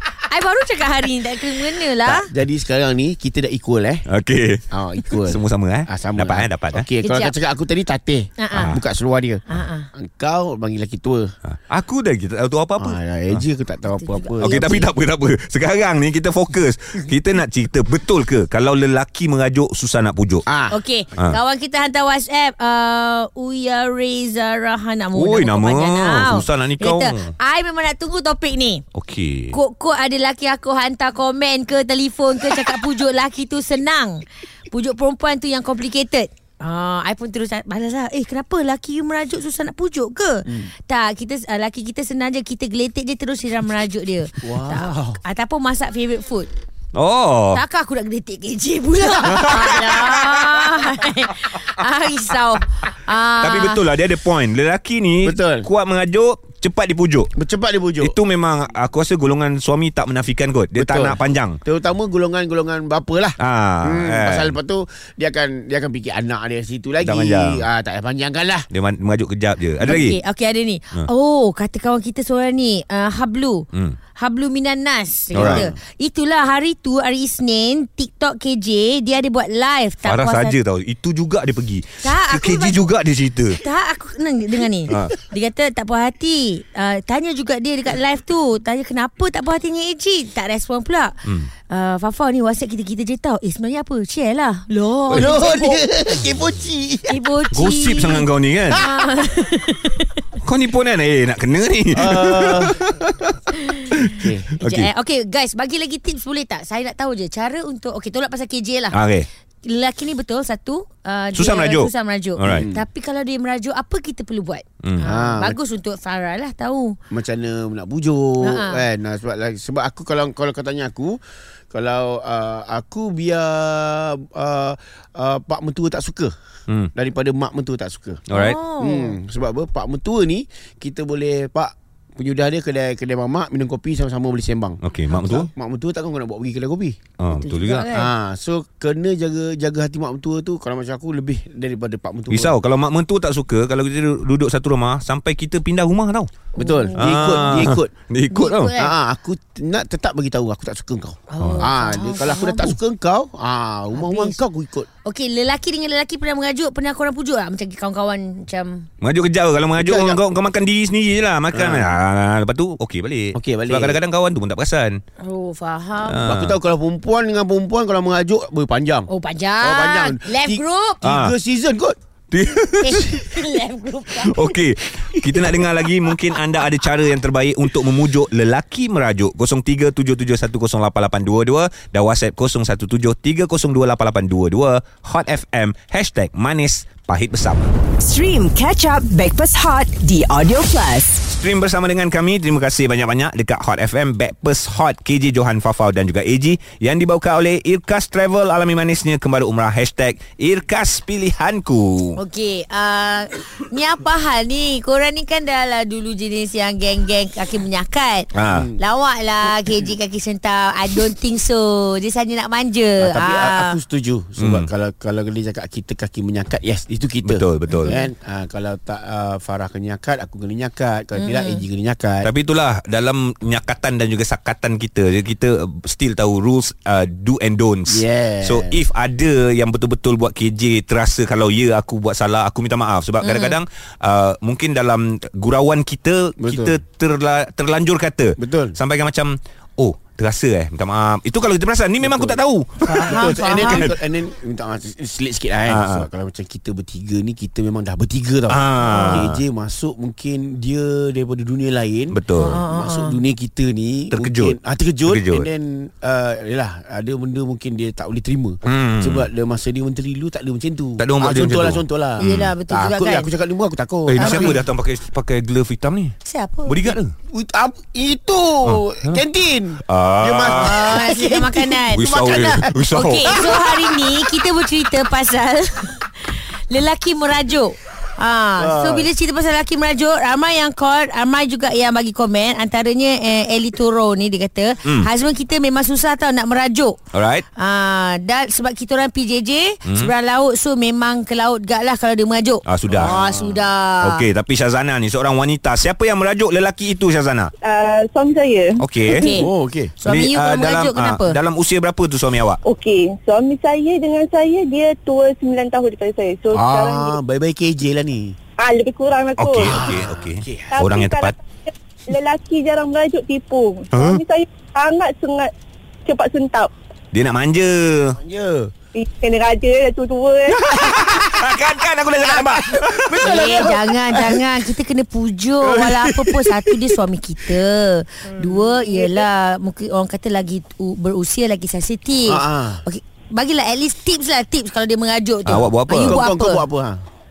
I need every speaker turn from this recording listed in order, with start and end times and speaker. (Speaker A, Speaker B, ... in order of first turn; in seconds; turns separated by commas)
Speaker A: 0.2-2.3, Speaker B: 2.0-4.1, Speaker C: 4.1-6.9, Speaker B: 4.7-11.3, Speaker A: 7.0-7.3, Speaker A: 8.4-8.8, Speaker C: 8.6-8.8, Speaker A: 9.5-9.9, Speaker C: 11.5-13.4, Speaker B: 12.8-14.7, Speaker A: 13.9-14.9, Speaker C: 14.4-20.5, Speaker B: 20.5-20.8, Speaker A: 20.7-28.8, Speaker C: 25.1-27.3, Speaker C: 28.9-29.5, Speaker A: 29.5-46.5, Speaker B: 40.5-40.7, Speaker B: 44.4-45.2, Speaker C: 46.9-47.6, Speaker A: 47.5-53.8, Speaker C: 49.2-50.6, Speaker B: 49.3-49.9, Speaker C: 53.4-57.3, Speaker B: 55.2-55.7, Speaker B: 57.4-58.1, Speaker C: 58.0-61.6, Speaker B: 60.8-68.7, Speaker C: 63.4-64.5, Speaker C: 67.0-67.6, Speaker C: 68.7-70.2, Speaker A: 69.8-80.6, Speaker C: 75.3-75.7, Speaker B: 75.4-75.7, Speaker C: 80.0-83.6, Speaker A: 82.0-82.9, Speaker A: 83.5-95.8, Speaker B: 95.1-97.2, Speaker A: 97.1-100.2, Speaker C: 97.5-98.8, Speaker C: 100.4-103.4, Speaker B: 101.9-102.8, Speaker A: 103.5-103.9, Speaker C: 103.9-104.9, Speaker B: 104.2-104.5, Speaker A: 104.6-109.0, Speaker C: 108.9-109.3, Speaker A: 109.7-117.0, Speaker C: 111.3-112.7, Speaker B: 112.5-112.8, Speaker C: 114.8-115.1, Speaker B: 115.0-115.6, Speaker B: 117.1-121.2, Speaker A: 118.4-118.8, Speaker B: 121.7-126.3, Speaker B: 127.0-128.2, Speaker C: 128.3-128.6, Speaker A: 128.3-129.2, Speaker B: 128.8-137.0, Speaker C: 134.8-135.5, Speaker C: 137.2-137.9, Speaker A: 137.3-138.1, Speaker B: 137.9-142.6, Speaker C: 142.3-146.3, Speaker A: 146.6-147.7, Speaker B: 146.6-147.9, Speaker C: 147.0-148.7, Speaker A: 148.3-148.9, Speaker B: 148.8-154.9, Speaker A: 151.3-152.8, Speaker C: 151.4-151.7, Speaker A: 153.9-154.4, Speaker A: 155.0-158.9, Speaker C: 159.0-165.0, Speaker B: 159.8-160.2, Speaker B: 161.5-161.9, Speaker B: 163.3-164.0, Speaker A: 165.2-166.2, Speaker C: 166.1-166.6, Speaker B: 166.2-169.1, Speaker A: 169.1-171.0, Speaker B: 169.6-172.0, Speaker C: 171.0-171.3, Speaker C: 172.3-173.4, Speaker A: 172.8-174.6, Speaker C: 174.2-187.8, Speaker D: 188.0-191.2, Speaker C: 191.3-202.2, Speaker A: 202.2-213.8, Speaker C: 208.3-208.7, Speaker B: 208.5-208.8, Speaker B: 213.0-222.3, Speaker C: 214.4-214.7, Speaker C: 217.2-218.0, Speaker A: 217.7-218.1, Speaker A: 221.2-221.7, Speaker C: 222.2-243.9, Speaker B: 227.9-228.8, Speaker A: 233.2-233.6, Speaker B: 236.4-236.8, Speaker B: 238.4-238.8, Speaker B: 242.0-242.4, Speaker A: 242.8-243.9, Speaker B: 243.0-264.6, Speaker C: 245.7-246.1, Speaker C: 248.5-249.4, Speaker A: 248.8-249.2, Speaker C: 252.1-252.6, Speaker A: 252.4-253.2, Speaker C: 254.1-255.5, Speaker C: 258.6-259.3, Speaker C: 261.0-262.5, Speaker A: 262.2-263.3, Speaker C: 264.1-266.1, Speaker A: 264.2-264.6, Speaker A: 266.2-266.9, Speaker C: 266.7-267.1, Speaker B: 267.3-274.1, Speaker C: 268.7-269.2, Speaker C: 269.9-270.9, Speaker A: 270.5-272.1, Speaker C: 271.9-273.4, Speaker A: 272.9-287.0, Speaker B: 278.6-279.1, Speaker C: 287.1-287.4, Speaker A: 287.6-294.2, Speaker C: 289.9-290.1, Speaker C: 292.7-293.1, Speaker B: 292.9-293.7, Speaker C: 294.0-297.5, Speaker E: 297.6-299.4, Speaker C: 298.8-299.3, Speaker A: 299.1-301.4, Speaker B: 299.4-299.9, Speaker C: 300.1-302.6, Speaker E: 302.6-307.1, Speaker B: 306.5-308.4, Speaker E: 308.6-309.8, Speaker C: 309.4-311.4, Speaker B: 309.6-310.7, Speaker E: 310.7-315.5, Speaker C: 313.9-314.2, Speaker E: 316.1-316.7, Speaker C: 317.1-318.2, Speaker B: 318.2-318.7, Speaker E: 319.0-320.7, Speaker C: 320.6-323.5, Speaker B: 323.1-324.5, Speaker A: 323.2-336.6, Speaker B: 325.6-326.8, Speaker B: 328.4-328.7, Speaker E: 328.9-329.2, Speaker B: 332.3-332.9, Speaker C: 335.5-336.2, Speaker B: 336.0-337.0